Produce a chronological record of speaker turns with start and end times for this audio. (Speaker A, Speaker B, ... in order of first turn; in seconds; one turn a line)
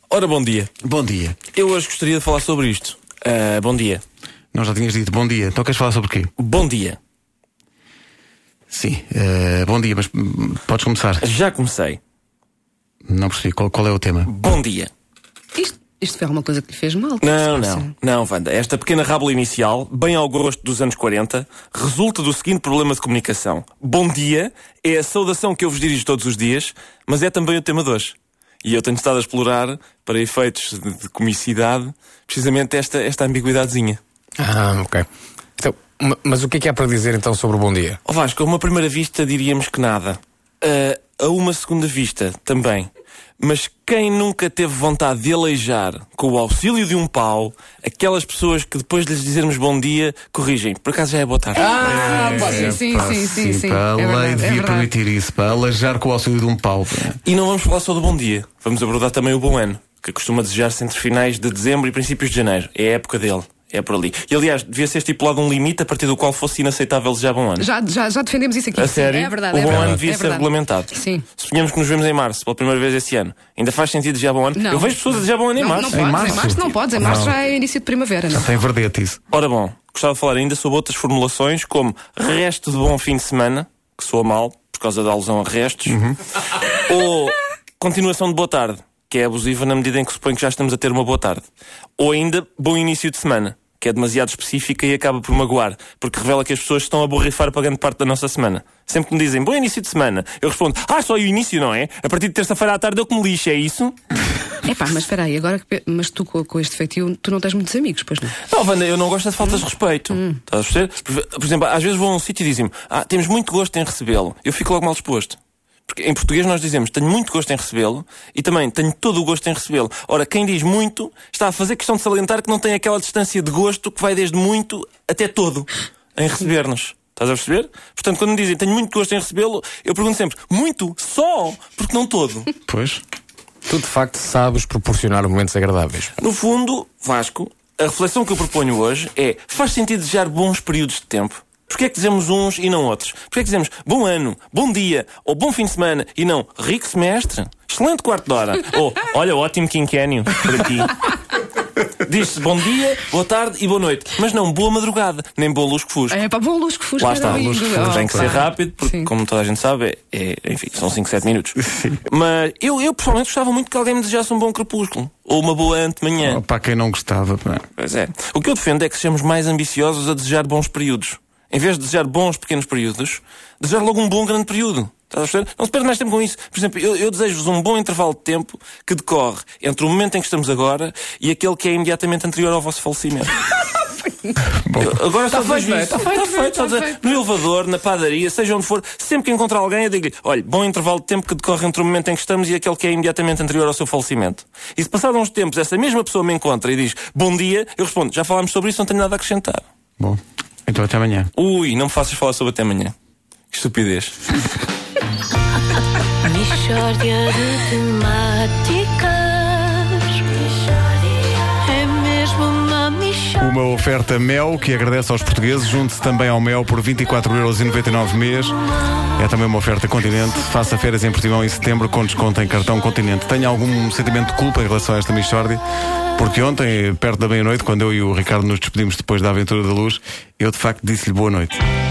Speaker A: 0.1-0.7
Speaker B: 0.8-1.4
Speaker A: 1.5-4.0
Speaker B: 4.5-6.3
Speaker A: 6.4-7.0
Speaker B: 8.7-11.2
Speaker A: 11.2-12.0
Speaker B: 13.1-14.3
Speaker A: 14.3-14.9
Speaker C: 15.6-17.9
Speaker A: 17.2-34.0
Speaker D: 34.4-35.0
Speaker D: 35.6-38.0
Speaker A: 38.0-51.7
Speaker D: 51.5-52.8
Speaker C: 51.6-54.9
Speaker B: 51.8-57.2
Speaker A: 57.2-67.7
Speaker C: 67.6-71.2
Speaker A: 68.7-76.0
Speaker C: 74.5-78.5
Speaker B: 75.9-77.3
Speaker B: 78.3-79.2
Speaker A: 79.3-86.0
Speaker B: 85.9-86.2
Speaker A: 86.7-91.4
Speaker A: 92.0-104.0
Speaker C: 104.6-108.4
Speaker A: 108.4-132.5
Speaker C: 110.1-110.4
Speaker B: 132.7-133.0
Speaker D: 133.7-136.1
Speaker A: 136.2-151.1
Speaker A: 152.0-156.2
Speaker C: 156.1-159.1
Speaker A: 157.0-166.4
Speaker B: 157.2-158.3
Speaker B: 161.7-162.0
Speaker B: 166.2-167.7
Speaker A: 167.8-183.4
Speaker B: 184.5-185.0
Speaker A: 184.8-199.6
Speaker D: 185.4-185.9
Speaker C: 185.6-186.9
Speaker B: 200.0-201.3
Speaker A: 201.3-202.9
Speaker A: 203.5-204.1
Speaker E: 206.2-213.4
Speaker B: 213.4-218.6
Speaker B: 219.1-225.6
Speaker B: 226.2-231.6